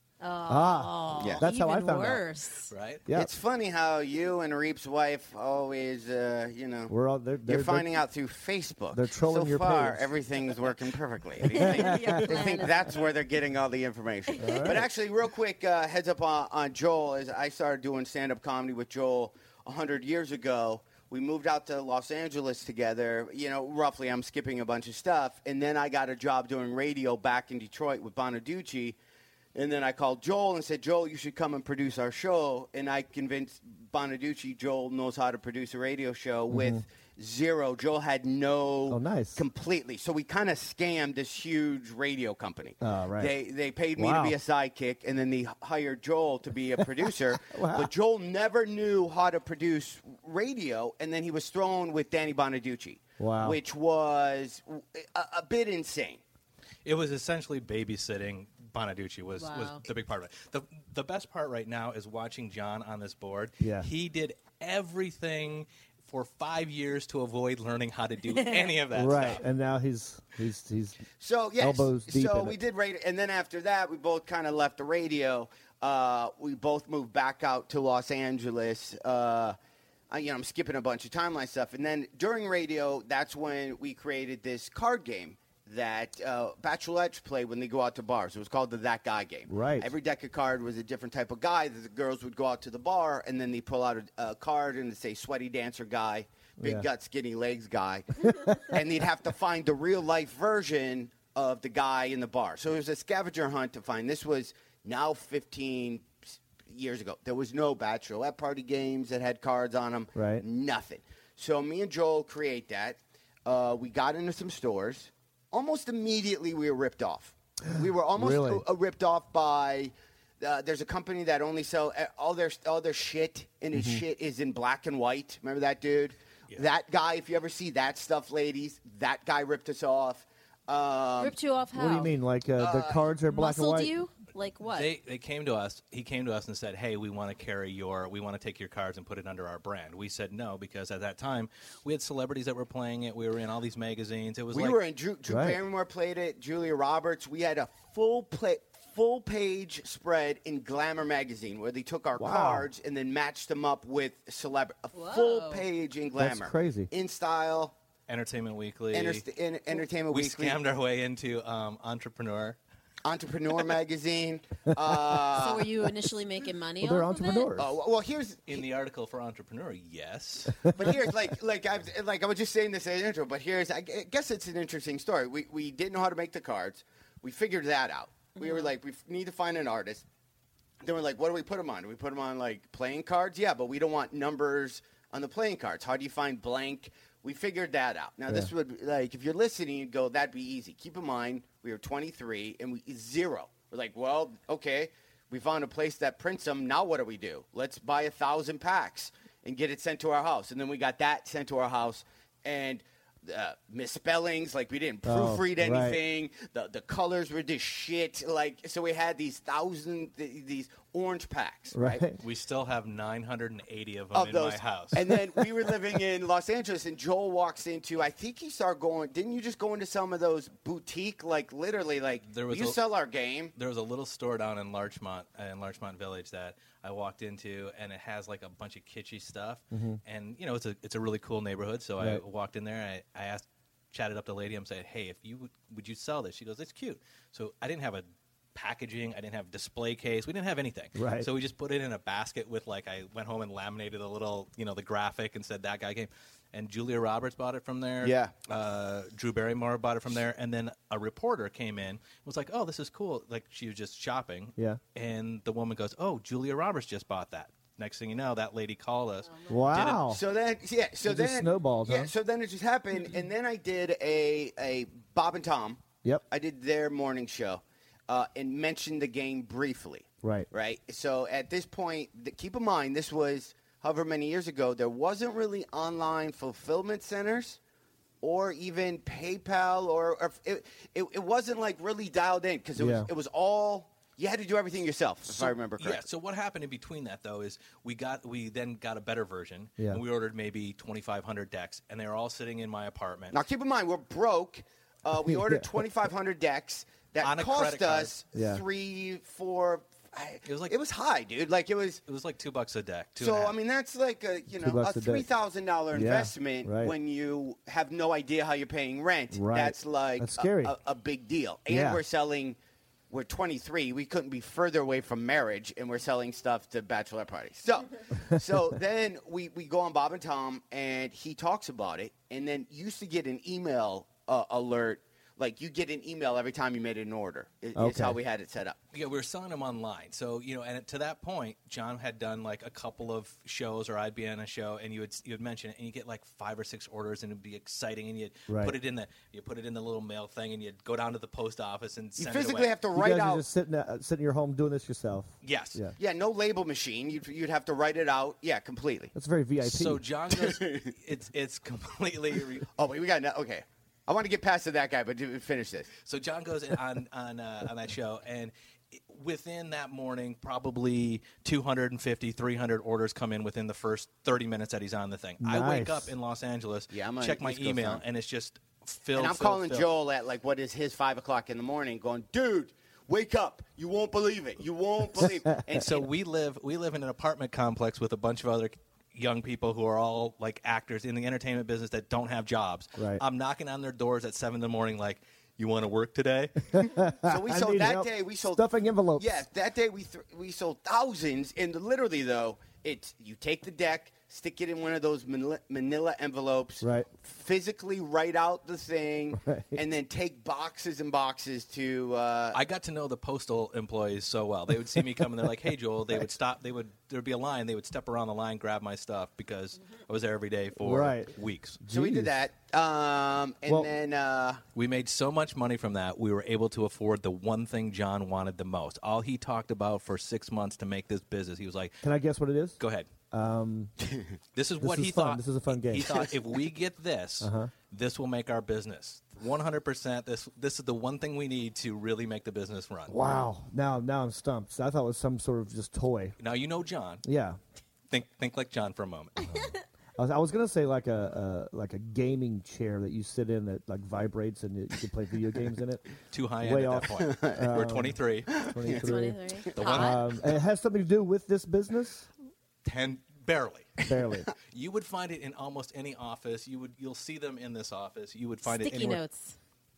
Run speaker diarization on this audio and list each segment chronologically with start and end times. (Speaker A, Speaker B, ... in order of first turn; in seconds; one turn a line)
Speaker A: 0.2-2.7
Speaker B: 0.5-2.2
Speaker C: 1.2-1.4
Speaker D: 2.7-3.0
Speaker B: 3.0-3.3
Speaker C: 3.1-6.9
Speaker B: 6.9-7.9
Speaker C: 7.5-28.9
Speaker B: 8.9-10.1
Speaker B: 11.5-12.2
Speaker A: 11.5-13.0
Speaker A: 14.4-14.7
Speaker B: 14.4-14.9
Speaker C: 29.5-56.2
Speaker B: 36.5-36.8
Speaker B: 38.9-39.4
Speaker B: 42.8-43.3
Speaker B: 44.0-44.4
Speaker B: 46.8-47.9
Speaker B: 53.2-53.6
Speaker D: 56.8-69.4
Speaker A: 59.4-59.8
Speaker B: 63.6-63.9
Speaker A: 68.3-68.7
Speaker B: 68.9-71.0
Speaker C: 71.2-79.6
Speaker B: 71.6-72.6
Speaker C: 80.1-131.3
Speaker B: 89.5-89.9
Speaker B: 96.6-96.9
Speaker B: 98.3-98.8
Speaker B: 110.1-110.4
Speaker B: 117.8-118.6
Speaker B: 123.7-124.0
Speaker A: 131.2-132.1
Speaker B: 131.7-133.9
Speaker C: 132.6-133.0
Speaker A: 133.3-134.9
Speaker D: 134.7-144.8
Speaker C: 144.5-157.7
Speaker B: 145.3-145.6
Speaker B: 152.2-152.7
Speaker A: 154.9-155.6
Speaker B: 156.2-156.9
Speaker D: 158.1-159.2
Speaker C: 158.9-160.6
Speaker D: 160.1-162.6
Speaker C: 163.0-165.7
Speaker A: 165.3-167.5
Speaker B: 166.8-167.8
Speaker C: 167.6-168.6
Speaker D: 168.5-170.8
Speaker C: 170.7-180.0
Speaker A: 178.4-178.7
Speaker C: 180.8-212.0
Speaker B: 205.0-206.0
Speaker B: 211.7-212.2
Speaker D: 212.2-215.2
Speaker C: 214.1-223.5
Speaker D: 222.3-222.8
Speaker D: 223.6-260.1
Speaker B: 229.7-230.0
Speaker B: 240.9-241.3
Speaker C: 248.0-248.3
Speaker B: 259.5-260.2
Speaker C: 260.0-277.6
Speaker B: 261.0-262.1
Speaker B: 270.2-270.5
Speaker C: 278.2-286.0
Speaker B: 282.8-283.1
Speaker D: 285.2-293.4
Speaker C: 293.3-302.0
Speaker B: 295.2-295.7
Speaker D: 297.2-298.1
Speaker B: 298.3-298.6
Speaker D: 300.4-300.7
Speaker D: 302.1-303.6
Speaker C: 303.2-312.6
Speaker B: 304.5-305.3
Speaker B: 305.9-306.9
Speaker B: 309.3-310.8
Speaker B: 311.7-312.0
Speaker C: 313.1-328.8
Speaker B: 327.7-328.2
Speaker D: 328.9-342.7
Speaker B: 338.5-338.8
Speaker C: 342.2-343.4
Speaker B: 342.9-345.9
Speaker D: 345.4-345.8
Speaker C: 346.0-349.1
Speaker B: 349.1-350.0
Speaker D: 349.6-352.7
Speaker C: 350.3-350.9
Speaker C: 352.8-355.9
Speaker D: 356.0-369.9
Speaker B: 365.4-366.1
Speaker C: 366.9-368.0
Speaker C: 369.1-376.1
Speaker D: 375.8-386.9
Speaker B: 382.9-383.2
Speaker B: 386.7-389.4
Speaker C: 387.2-388.6
Speaker C: 389.2-402.6
Speaker B: 396.8-397.1
Speaker B: 399.3-399.8
Speaker D: 402.5-411.8
Speaker B: 404.9-405.5
Speaker B: 410.8-412.3
Speaker C: 411.9-414.6
Speaker D: 414.7-422.0
Speaker B: 422.0-422.8
Speaker D: 422.8-423.1
Speaker B: 423.3-423.9
Speaker D: 424.5-433.1
Speaker B: 424.8-426.3
Speaker B: 427.4-427.7
Speaker B: 433.1-436.4
Speaker D: 436.4-437.2
Speaker B: 437.2-437.6
Speaker D: 438.1-439.5
Speaker B: 440.2-446.0
Speaker D: 446.3-448.7
Speaker B: 446.6-452.3
Speaker C: 447.1-447.7
Speaker C: 448.5-449.1
Speaker A: 449.0-450.2
Speaker D: 449.8-450.4
Speaker D: 452.8-454.0
Speaker B: 454.1-454.5
Speaker D: 454.7-459.2
Speaker A: 458.6-459.6